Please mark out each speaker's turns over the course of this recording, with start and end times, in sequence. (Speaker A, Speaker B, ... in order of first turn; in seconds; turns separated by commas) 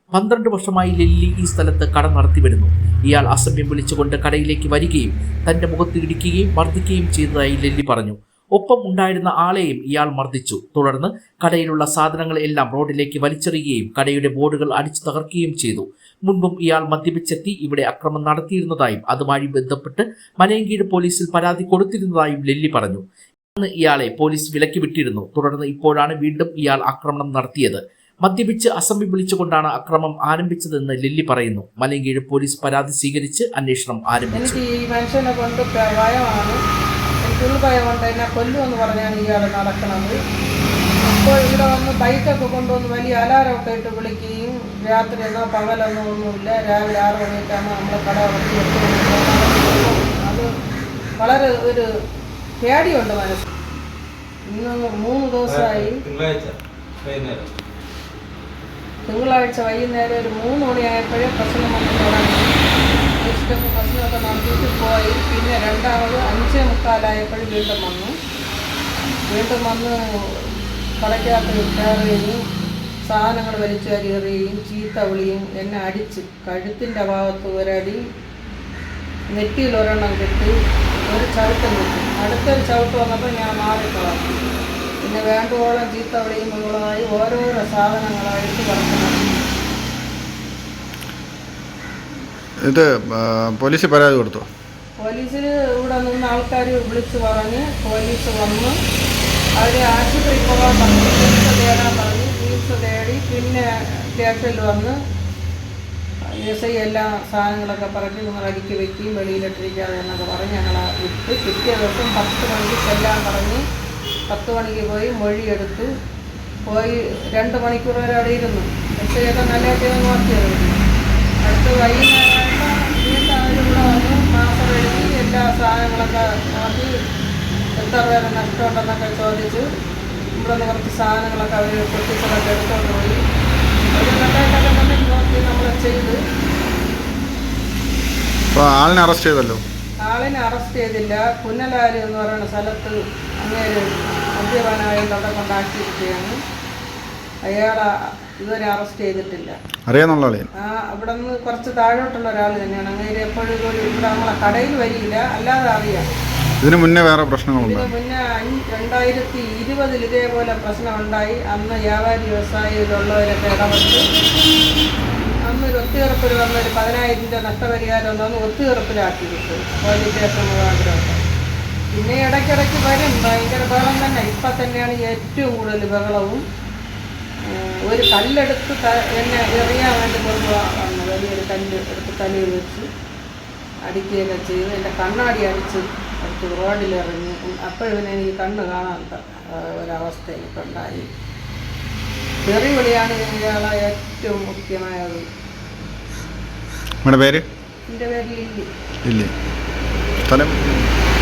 Speaker A: 0.1-23.0, Speaker A: 23.6-34.6, Speaker B: 34.3-36.6, Speaker B: 37.2-40.2, Speaker B: 41.0-50.5, Speaker B: 51.2-51.9, Speaker B: 52.6-53.5, Speaker B: 54.5-56.0, Speaker C: 55.5-57.5, Speaker B: 59.1-62.5, Speaker B: 63.2-68.1, Speaker B: 69.3-70.5, Speaker B: 71.0-72.4, Speaker B: 73.1-78.0, Speaker B: 79.3-80.5, Speaker B: 81.1-89.5, Speaker D: 92.7-94.5, Speaker B: 95.0-98.7, Speaker B: 99.6-105.0, Speaker B: 106.4-113.6, Speaker B: 114.3-115.9, Speaker B: 116.7-120.8, Speaker B: 121.5-126.9, Speaker B: 127.8-129.6, Speaker B: 130.4-133.2, Speaker B: 133.9-136.2, Speaker D: 138.5-139.6, Speaker B: 140.0-143.8, Speaker B: 144.4-146.4, Speaker B: 147.5-149.6, Speaker D: 149.9-150.5, Speaker B: 150.6-156.1, Speaker D: 156.6-157.9, Speaker B: 157.6-164.0, Speaker B: 165.5-171.2, Speaker B: 171.9-176.4, Speaker B: 177.5-182.9, Speaker B: 183.9-191.1, Speaker B: 192.4-195.2, Speaker D: 197.1-197.4, Speaker B: 197.9-198.7, Speaker D: 199.1-199.3, Speaker D: 200.3-200.9